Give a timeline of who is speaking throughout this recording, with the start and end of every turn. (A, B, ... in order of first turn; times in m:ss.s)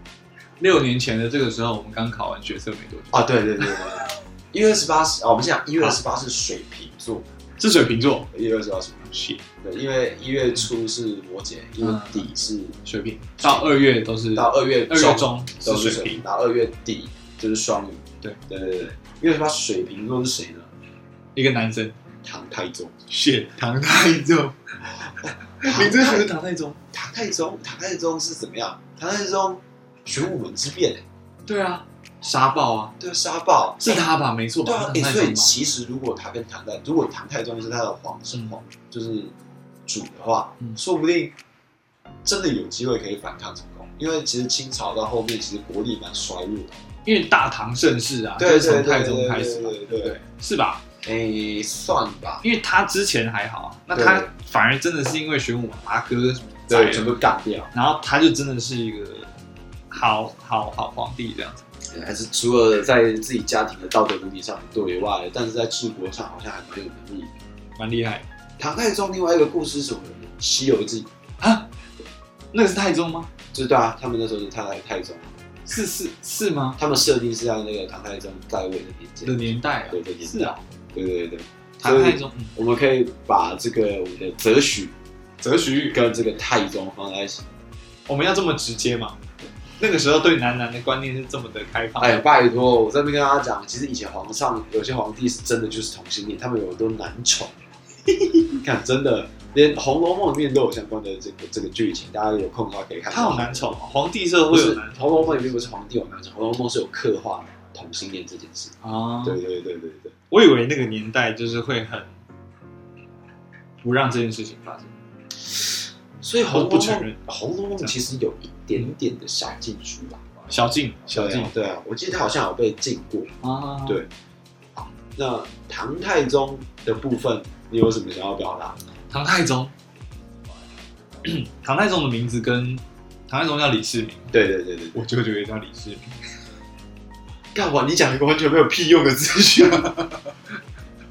0:00.6-0:03.8 A
0:03.1-0:07.2 B
0:07.6-0:08.3 A
0:08.3-0:12.8 B
0:09.1-0:09.4 A
0:11.8-0:12.3 A
0:12.8-0:16.2 A
0:13.4-0:13.7 B
0:14.3-0:20.7 B
0:21.4-0:22.0 A
0:22.2-0:22.9 B
0:23.1-0:24.7 A
0:25.2-0:26.3 B
0:25.6-0:26.8 A
0:26.9-0:31.0 B
0:31.5-0:33.0 A
0:33.0-0:34.1 B
0:33.8-0:35.5 A
0:34.6-0:39.3 B
0:38.3-0:38.6 A
0:39.9-0:41.3 B
0:42.2-0:46.8 B
0:47.0-0:50.8 A
0:48.4-0:50.2 B
0:51.0-0:52.4 B
0:52.4-0:59.3 A
0:53.9-0:54.3 B
0:56.7-0:57.7 B
0:59.9-1:01.7 A
1:01.9-1:07.4 B
1:07.8-1:08.3 A
1:08.6-1:11.1 B
1:11.4-1:11.7 A
1:12.5-1:13.3 A
1:13.5-1:15.3 B
1:15.7-1:16.8 A
1:16.8-1:24.9 B
1:19.2-1:20.6 A
1:21.8-1:22.5 A
1:25.4-1:26.0 A
1:25.9-1:27.5 B
1:28.1-1:29.2 A
1:29.8-1:32.2 A
1:32.0-1:37.5 B
1:38.5-1:43.9 B
1:43.1-1:45.6 A
1:44.5-1:50.1 B
1:48.8-1:49.4 A
1:50.3-1:52.1 A
1:53.8-1:54.9 A
1:56.2-2:00.2 B
1:56.5-1:57.2 A
2:00.5-2:01.5 A
2:01.1-2:03.4 B
2:03.4-2:04.0 A
2:04.8-2:08.8 B
2:09.1-2:09.7 A
2:11.2-2:14.3 A
2:14.3-2:15.0 B
2:14.9-2:16.2 A
2:17.5-2:20.0 B